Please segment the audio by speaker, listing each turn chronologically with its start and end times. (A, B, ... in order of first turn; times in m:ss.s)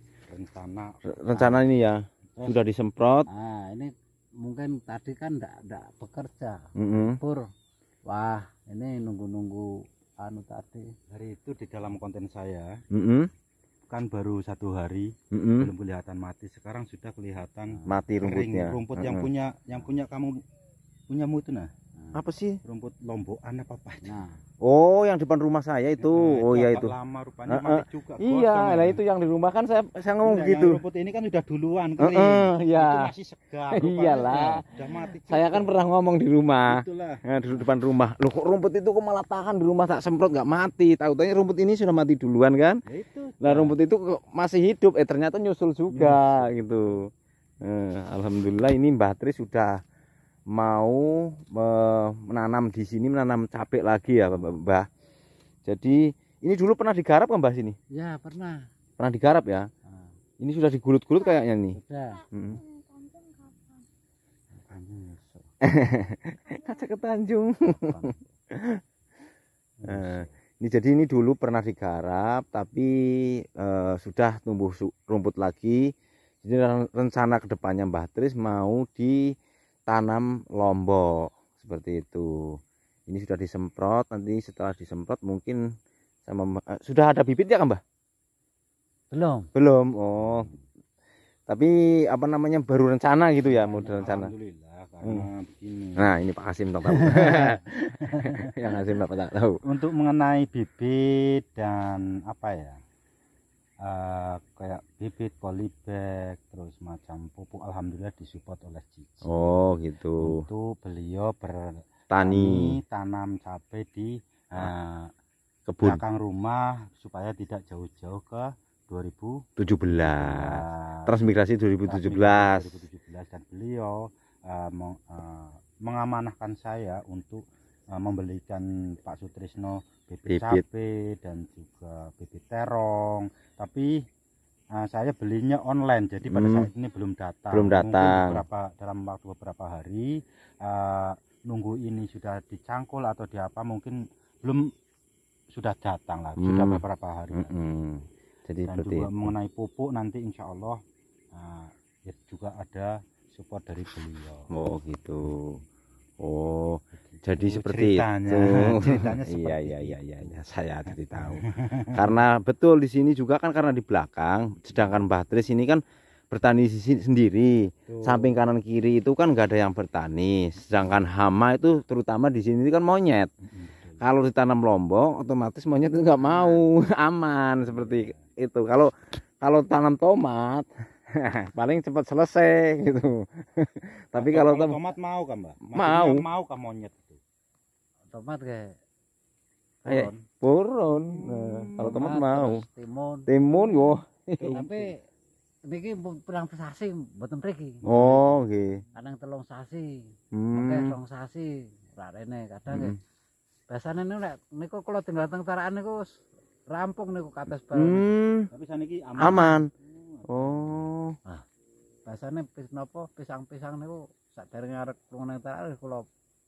0:00.3-0:01.5 A
0:01.0-0:03.3 B
0:03.3-0:07.5 C
0:06.8-0:07.2 B
0:08.0-0:10.9 C
0:11.1-0:12.8 A
0:12.9-0:13.3 B
0:13.9-0:20.4 A
0:15.3-0:15.7 B
0:17.7-0:18.0 C
0:17.8-0:19.3 B
0:21.1-0:21.7 A
0:22.1-0:22.6 B
0:22.6-0:24.2 A
0:24.0-0:24.4 C
0:24.6-0:26.9 B
0:26.0-0:29.0 A
0:27.5-0:30.8 B
0:30.2-0:35.8 A
0:32.0-0:33.1 B
0:33.7-0:42.8 B
0:36.6-0:37.2 A
0:42.8-0:43.8 A
0:43.4-0:49.8 B
0:45.9-0:46.5 A
0:50.5-0:54.9 B
0:55.6-0:57.8 B
0:57.9-0:58.7 C
0:59.0-0:59.7 B
1:00.4-1:01.8 B
1:01.7-1:02.2 C
1:02.3-1:02.6 B
1:04.7-1:05.4 C
1:05.6-1:08.8 B
1:07.8-1:08.3 C
1:09.8-1:10.2 C
1:09.9-1:19.3 B
1:19.9-1:25.6 B
1:26.3-1:27.8 B
1:29.1-1:29.5 C
1:29.5-1:30.5 B
1:31.5-1:34.3 B
1:33.4-1:36.1 A
1:36.0-1:39.6 B
1:36.9-1:38.8 A
1:39.6-1:42.8 A
1:43.8-1:49.2 A
1:49.2-1:50.4 B
1:50.2-1:55.1 A
1:52.1-1:52.8 B
1:55.7-1:56.0 B
1:55.8-1:59.4 A
1:59.6-2:02.7 B
2:00.1-2:01.1 A
2:01.9-2:14.0 A
2:10.3-2:10.6 B
2:14.7-2:24.7 A
2:16.3-2:16.7 B
2:17.5-2:18.4 B
2:25.5-2:27.6 A
2:26.4-2:29.3 B
2:28.6-2:34.5 A
2:34.5-2:35.6 B
2:36.2-2:53.3 B
2:37.1-2:40.4 A
2:41.1-2:42.2 A
2:47.9-2:48.4 A
2:53.5-2:53.9 A
2:54.0-3:04.8 B
2:57.8-2:58.1 A
3:04.2-3:07.2 A
3:05.7-3:06.2 B
3:08.1-3:08.8 C
3:09.8-3:10.2 C
3:09.8-3:12.6 B
3:11.8-3:13.9 C
3:13.3-3:14.9 B
3:14.5-3:15.0 C
3:15.6-3:18.3 C
3:17.8-3:18.8 B
3:18.9-3:23.0 C
3:20.3-3:21.0 B
3:22.7-3:23.0 B
3:23.7-3:28.2 C
3:27.6-3:28.5 B
3:28.5-3:30.9 A
3:29.2-3:29.7 B
3:30.3-3:31.2 B
3:32.0-3:36.0 C